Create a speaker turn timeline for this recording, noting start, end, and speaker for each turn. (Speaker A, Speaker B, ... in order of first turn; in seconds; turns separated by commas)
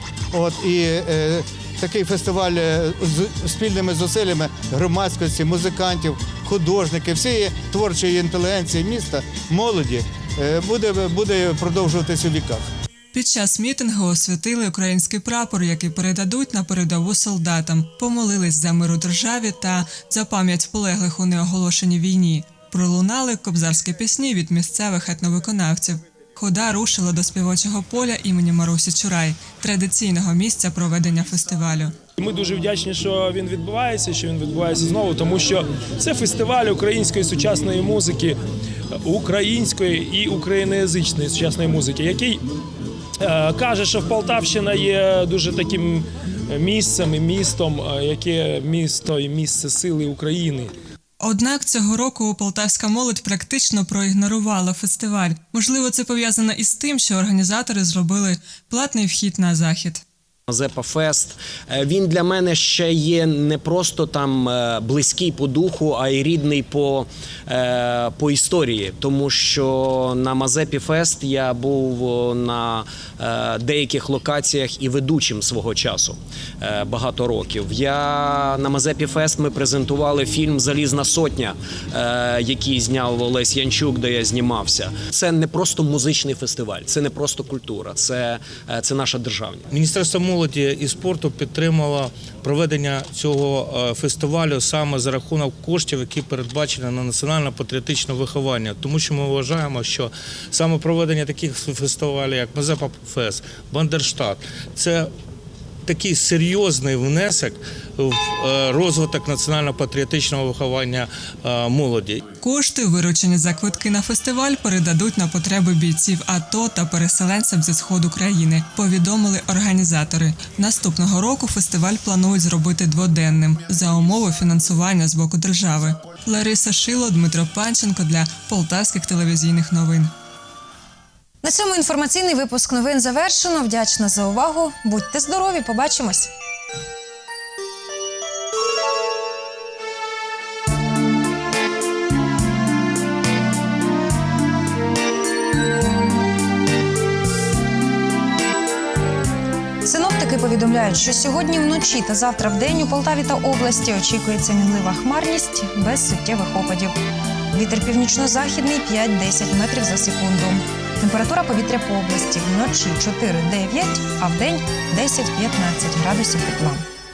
Speaker A: 0.3-12.7, Speaker B: 13.1-32.0, Speaker C: 32.2-38.4, Speaker C: 39.0-42.5, Speaker C: 43.2-50.7, Speaker B: 51.2-60.0, Speaker D: 60.5-89.7, Speaker E: 89.7-105.1, Speaker E: 105.9-112.2, Speaker B: 112.4-130.1, Speaker F: 131.4-136.3, Speaker F: 149.8-157.0, Speaker F: 157.5-166.8